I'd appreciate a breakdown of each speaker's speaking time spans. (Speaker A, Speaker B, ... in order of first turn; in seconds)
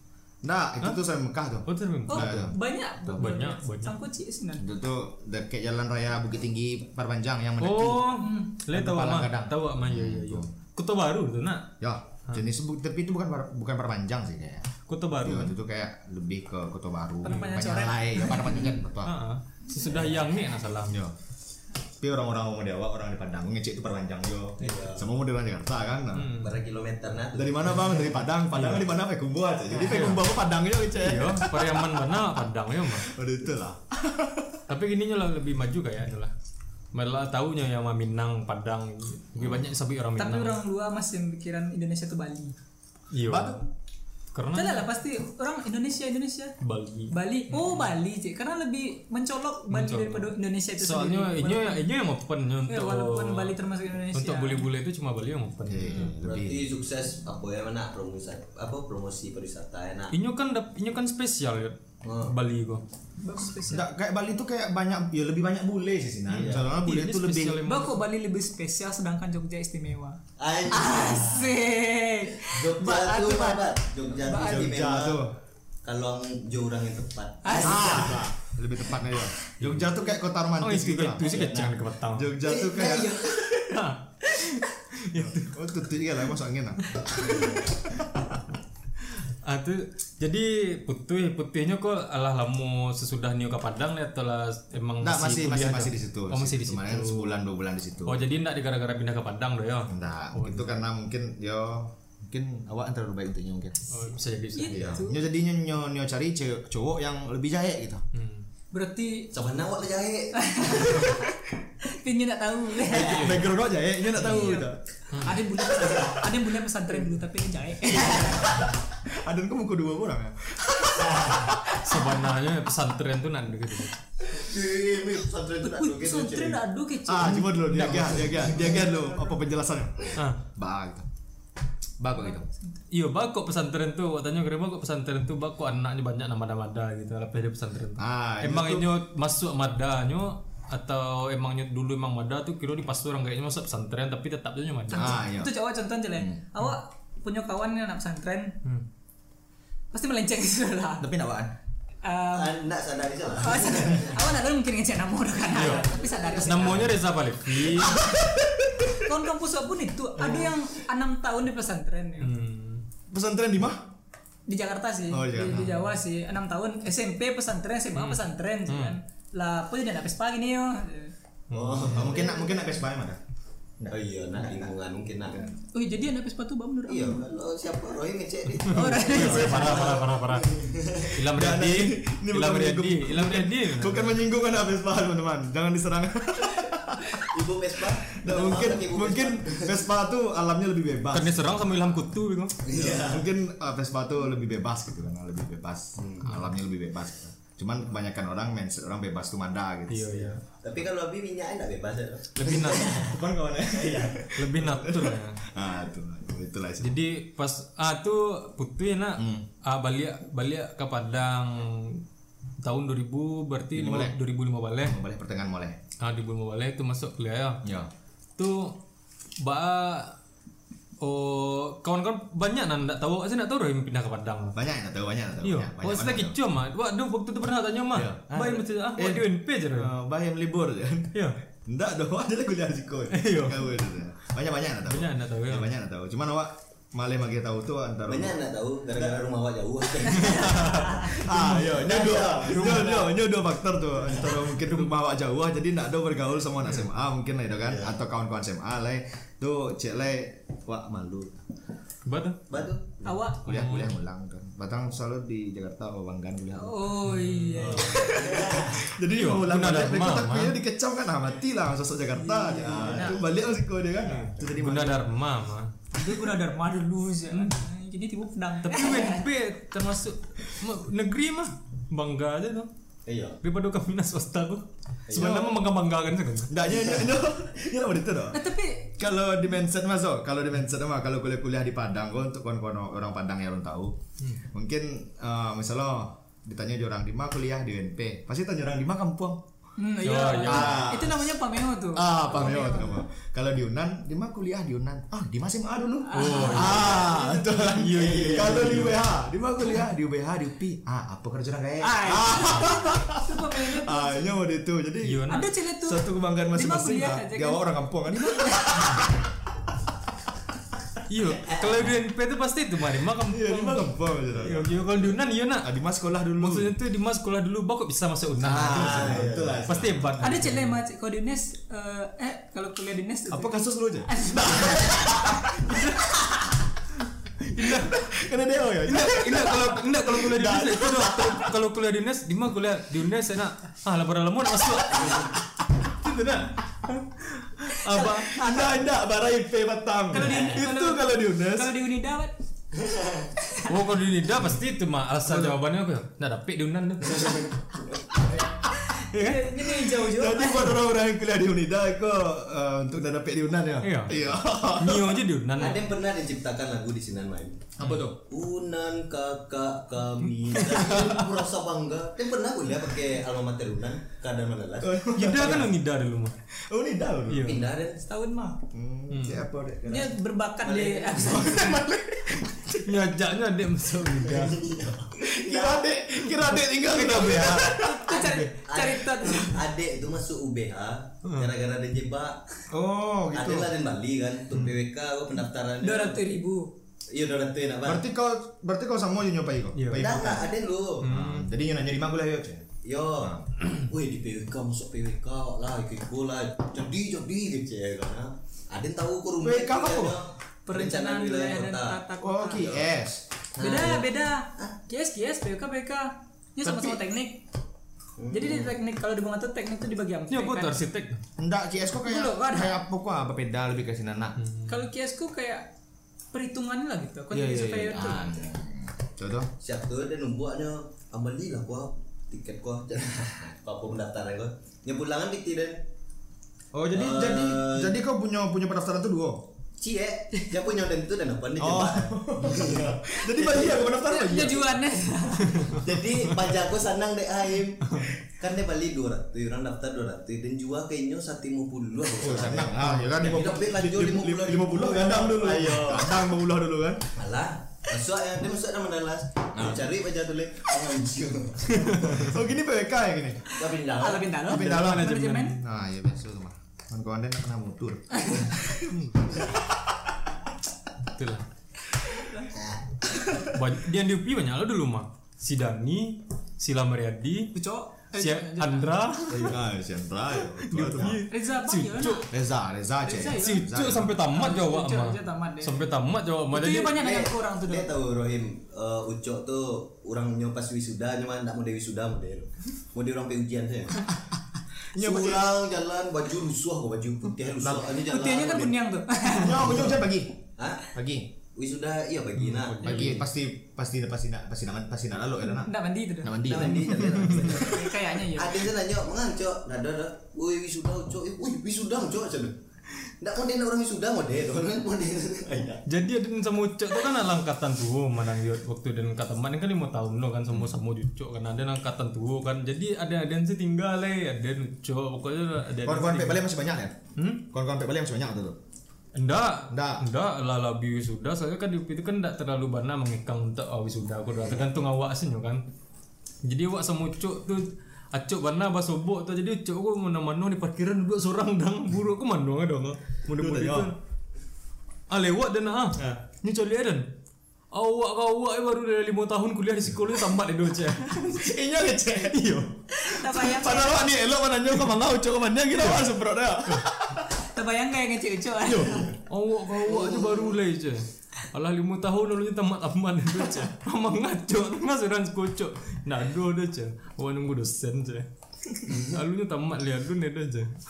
Speaker A: 0.4-2.5, 4.6-10.5, 11.8-19.1, 20.9-21.1, 22.0-26.4, 27.3-32.3, 32.8-34.6, 39.4-39.7, 43.2-43.6, 55.6-56.7, 63.7-67.6, 74.3-75.3, 77.6-83.5, 85.1-88.2, 95.0-98.4, 99.9-103.9, 104.7-108.0, 112.8-114.8, 115.3-116.3, 118.9-122.1, 127.0-131.1, 132.0-132.4, 138.0-138.9, 144.9-145.5, 151.0-151.5, 157.7-159.1, 160.2-160.5, 163.1-163.9, 165.1-165.9, 171.9-173.2, 173.8-174.7, 175.3-175.6, 181.2-187.3, 188.1-200.3, 202.9-207.0, 209.2-209.5, 213.7-214.2, 214.8-215.8, 217.6-217.9, 224.5-226.4, 227.9-238.4, 238.9-239.2, 241.0-251.4, 253.3-256.9, 257.6-265.1, 275.1-275.6, 276.5-278.4, 279.0-289.4, 290.4-291.4, 291.9-309.1, 313.2-316.8, 318.4-320.1, 323.3-325.8, 327.6-331.5, 337.9-341.7, 345.2-345.6, 349.8-355.3, 357.8-358.2, 364.8-365.8, 366.5-367.6, 368.7-370.1, 371.9-372.8, 375.2-378.3, 382.7-383.7, 387.8-392.7, 393.2-393.4, 399.4-400.2, 402.2-403.3, 406.6-407.0, 411.4-414.4, 417.3-419.5, 426.7-429.5, 431.6-434.7, 442.2-447.1, 449.6-449.8, 452.1-453.6, 454.5-459.9, 469.3-471.2, 472.3-474.2, 484.9-485.6, 487.6-487.9, 489.3-491.3, 492.8-497.6, 515.8-518.6, 519.7-520.0, 533.3-533.9, 536.0-536.2, 541.2-542.4, 543.2-547.3, 548.7-549.1
Speaker B: 1.6-2.5, 3.1-3.9, 7.6-11.7, 14.9-15.5, 19.0-21.0, 26.1-26.6, 28.5-28.9, 29.7-30.2, 31.0-33.1, 34.7-36.3, 36.9-40.6, 43.1-43.6, 44.3-44.9, 46.6-47.9, 49.7-53.5, 54.1-56.1, 60.1-62.8, 66.3-68.0, 80.6-82.3, 83.7-85.6, 89.2-97.4, 98.0-100.8, 103.9-105.0, 108.1-108.5, 115.1-115.4, 121.8-123.9, 127.5-128.7, 132.9-145.2, 155.5-155.9, 156.4-158.0, 162.2-162.8, 167.9-169.0, 171.5-172.1, 178.7-184.2, 191.1-192.6, 199.9-200.4, 202.3-203.0, 204.3-205.4, 206.8-212.0, 212.6-215.0, 216.0-217.6, 218.4-218.8, 219.4-220.2, 221.0-224.6, 225.4-229.9, 233.1-233.7, 234.8-235.7, 240.1-241.7, 242.5-242.9, 244.6-244.9, 252.1-252.4, 253.5-253.9, 257.0-258.0, 259.1-260.6, 264.4-265.7, 267.3-267.6, 268.6-272.7, 273.4-276.5, 290.0-290.9, 296.1-299.0, 305.0-305.5, 311.1-315.7, 316.4-320.8, 327.4-328.0, 328.8-335.3, 335.8-338.3, 343.6-347.5, 349.1-349.4, 353.8-355.8, 360.5-361.3, 365.1-366.3, 367.3-367.7, 369.1-369.4, 372.8-374.6, 376.4-377.7, 381.2-381.5, 389.7-390.2, 391.0-391.5, 410.3-411.2, 414.4-414.8, 435.5-435.8, 437.9-438.1, 442.8-443.1, 451.7-452.3, 454.5-455.5, 458.9-459.1, 461.1-461.4, 463.4-467.5, 468.1-469.6, 470.6-472.2, 473.3-477.0, 492.4-493.2, 497.0-497.5, 505.9-516.4, 517.1-517.4, 519.1-525.6, 526.4-534.0, 535.1-537.1, 537.7-542.8, 545.7-546.0, 549.2-558.3, 558.8-560.8
Speaker C: 2.1-4.7, 8.2-8.5, 17.2-18.8, 40.2-42.5, 44.5-46.5, 47.1-51.8, 52.7-54.7, 63.2-63.9, 67.6-74.7, 77.4-78.2, 104.5-105.2, 108.7-109.3, 110.3-113.5, 114.1-118.6, 125.6-127.5, 128.6-129.2, 132.2-132.8, 144.9-148.6, 149.9-151.1, 152.0-152.6, 153.4-156.9, 158.9-162.3, 164.5-171.1, 175.7-177.2, 178.6-179.9, 253.0-253.5, 256.6-258.2, 262.2-263.2, 265.9-269.2, 278.3-278.9, 289.8-293.0, 296.0-297.7, 301.8-304.4, 305.3-309.1, 320.2-326.4, 337.9-338.8, 340.1-342.3, 343.4-343.7, 349.0-350.8, 368.1-368.6, 369.9-372.3, 377.6-379.6, 385.8-386.7, 400.6-402.7, 403.6-407.4, 408.3-410.8, 412.0-412.8, 414.7-415.7, 416.3-418.4, 433.7-435.8, 453.9-455.6, 467.5-469.1, 471.3-472.3, 473.0-475.9, 476.5-477.9, 488.0-489.7, 495.6-496.4, 497.4-498.7, 542.9-544.1, 547.4-549.1
Speaker D: 19.9-20.2, 24.6-25.1, 26.4-28.0, 56.2-60.1, 62.0-62.3, 66.3-66.7, 70.4-71.6, 72.4-75.2, 75.8-78.2, 81.2-81.7, 82.4-83.6, 109.3-111.1, 121.0-121.5, 124.2-126.6, 152.3-154.2, 155.7-156.8, 171.5-172.6, 173.9-175.4, 176.9-181.2, 187.2-189.8, 192.6-193.2, 196.0-196.3, 200.5-203.2, 203.7-204.3, 238.1-243.1, 244.1-244.4, 247.6-247.9, 252.5-252.9, 257.6-258.8, 262.7-263.2, 273.1-273.4, 275.1-275.4, 297.9-299.0, 311.4-311.9, 318.7-319.7, 342.9-343.3, 347.1-347.5, 355.6-365.6, 367.4-368.0, 370.6-371.8, 374.2-375.9, 378.1-382.4, 383.3-386.2, 387.1-388.0, 389.9-391.1, 392.8-402.0, 402.5-402.9, 403.6-404.7, 408.2-408.7, 419.6-425.8, 426.9-427.9, 429.8-433.9, 435.7-446.3, 447.1-452.4, 453.5-454.6, 462.5-463.4, 476.9-484.2, 485.0-488.8, 489.6-490.0, 490.6-490.9, 491.5-493.2, 496.4-505.8, 549.8-550.6